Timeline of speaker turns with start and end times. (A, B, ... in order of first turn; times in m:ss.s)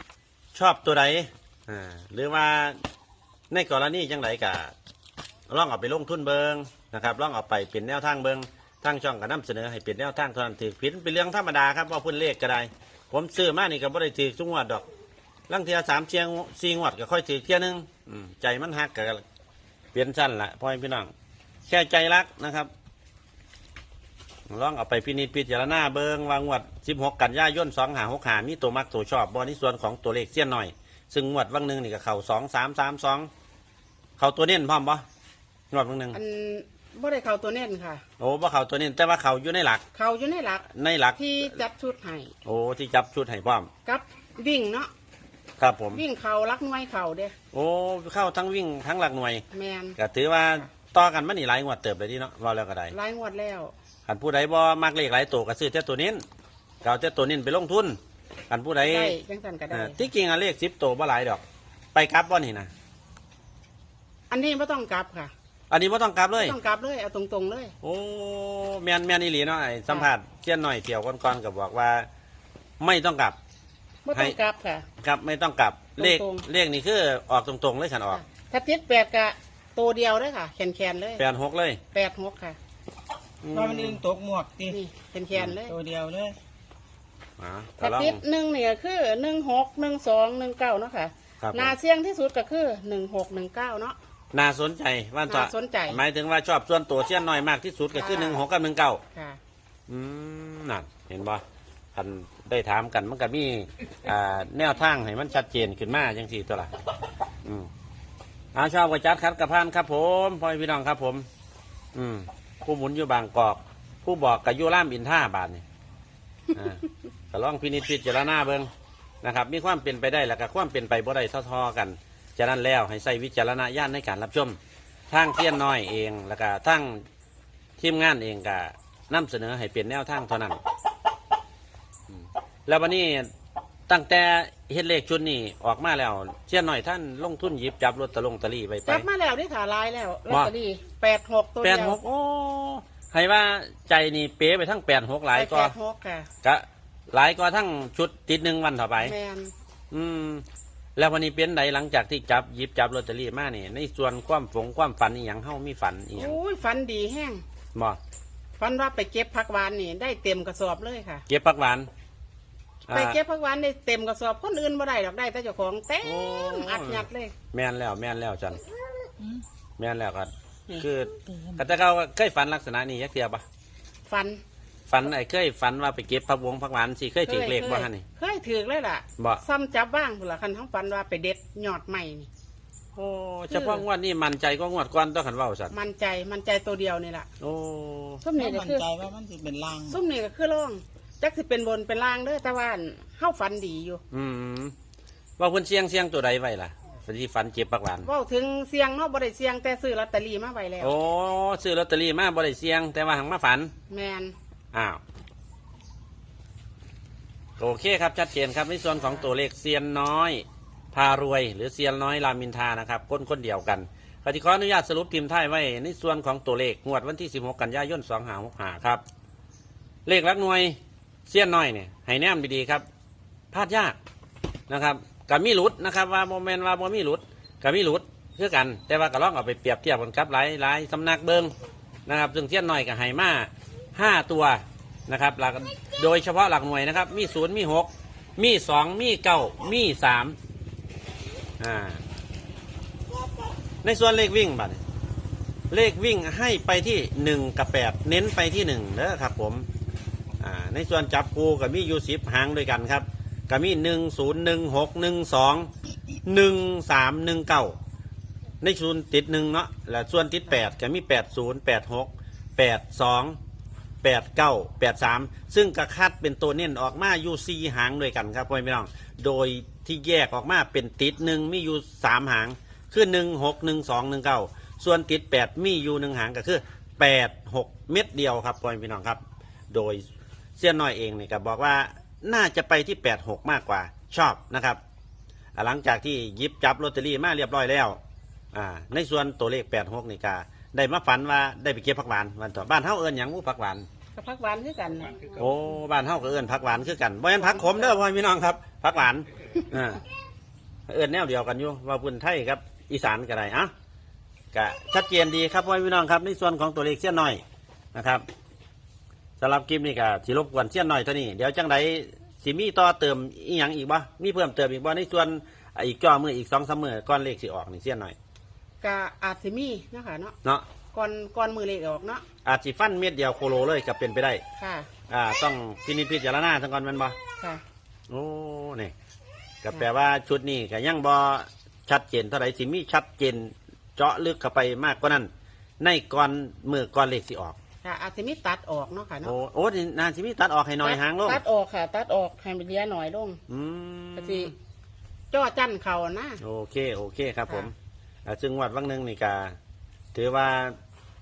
0:00.5-0:02.8 A
0:03.5-0:04.7 A
0:05.5-0:14.9 A
0:15.5-0:19.2 A
0:19.9-0:21.1 A
0:21.7-0:22.7 A
0:24.5-0:33.3 A
0:34.2-0:35.0 A
0:35.7-0:36.2 A
0:36.1-0:38.0 B
0:38.2-0:39.8 A
0:39.9-0:40.6 B
0:40.7-0:41.5 A
0:41.2-0:42.3 B
0:42.4-0:43.7 A
0:43.8-0:44.9 B
0:45.6-0:46.0 A
0:45.9-0:47.3 B
0:47.5-0:49.4 A
0:49.5-0:50.0 B
0:50.0-0:52.9 A
0:52.9-0:53.7 B
0:54.0-0:56.2 A
0:56.8-0:59.1 A
0:58.8-1:00.1 B
0:59.7-1:01.4 A
1:01.9-1:02.7 A
1:04.3-1:05.3 B
1:05.7-1:06.6 A
1:06.4-1:07.7 B
1:07.8-1:12.1 A
1:12.8-1:13.4 A
1:14.0-1:14.8 B
1:15.0-1:18.2 A
1:16.0-1:16.4 B
1:18.1-1:21.2 B
1:21.2-1:21.8 A
1:21.9-1:22.6 B
1:23.4-1:24.0 A
1:23.5-1:24.8 C
1:24.7-1:25.8 B
1:25.6-1:26.4 C
1:27.4-1:28.2 A
1:27.8-1:34.0 B
1:31.4-1:31.7 A
1:34.3-1:39.0 A
1:35.3-1:36.0 B
1:37.9-1:38.4 B
1:39.1-1:39.4 B
1:39.9-1:41.4 A
1:41.9-1:46.7 A
1:48.5-1:51.2 A
1:51.9-1:55.6 A
1:56.5-1:58.7 A
1:59.2-2:04.6 A
2:05.1-2:07.0 A
2:07.8-2:10.6 A
2:12.1-2:13.3 A
2:13.9-2:19.0 A
2:18.8-2:22.0 B
2:21.6-2:25.7 A
2:25.3-2:26.3 B
2:26.4-2:29.1 A
2:29.0-2:29.5 B
2:29.9-2:30.4 A
2:31.0-2:36.4 A
2:36.1-2:37.4 B
2:37.7-2:38.0 A
2:38.6-2:41.2 B
2:41.3-2:41.9 A
2:42.8-2:43.2 A
2:42.9-2:47.3 B
2:46.0-2:48.6 A
2:49.8-2:53.4 A
2:54.1-2:54.4 B
2:54.9-2:58.0 A
2:57.2-3:02.3 B
2:59.2-2:59.4 A
3:02.9-3:05.7 A
3:03.5-3:03.8 B
3:05.7-3:07.3 B
3:07.4-3:08.2 A
3:08.2-3:08.9 B
3:08.4-3:10.0 C
3:09.9-3:14.0 B
3:14.1-3:14.7 A
3:15.4-3:18.1 A
3:18.0-3:20.9 B
3:20.8-3:23.7 A
3:23.9-3:24.3 B
3:24.7-3:25.0 A
3:27.6-3:39.0 A
3:40.0-3:42.8 A
3:43.5-3:44.0 A
3:44.7-3:51.5 A
3:52.0-4:00.4 A
4:01.6-4:02.0 A
4:03.8-4:04.8 A
4:05.7-4:09.6 A
4:10.4-4:15.7 A
4:16.2-4:17.8 A
4:18.6-4:23.4 A
4:24.0-4:40.0 A
4:40.6-4:44.8 A
4:45.5-4:48.0 A
4:48.5-4:53.9 A
4:54.2-4:55.4 B
4:55.4-5:00.0 A
4:57.4-4:57.9 B
5:00.9-5:03.7 A
5:04.5-5:07.4 A
5:07.9-5:08.2 A
5:09.4-5:18.2 A
5:18.8-5:20.3 B
5:20.9-5:22.2 B
5:22.4-5:24.4 A
5:24.6-5:24.9 B
5:25.1-5:27.2 A
5:28.1-5:28.9 A
5:29.6-5:35.3 A
5:35.8-5:37.6 A
5:37.8-5:39.3 B
5:39.2-5:41.4 A
5:40.8-5:43.4 B
5:43.5-5:44.5 A
5:44.2-5:44.5 B
5:45.3-5:46.4 B
5:46.4-5:47.7 A
5:48.2-5:49.6 A
5:50.1-5:50.7 A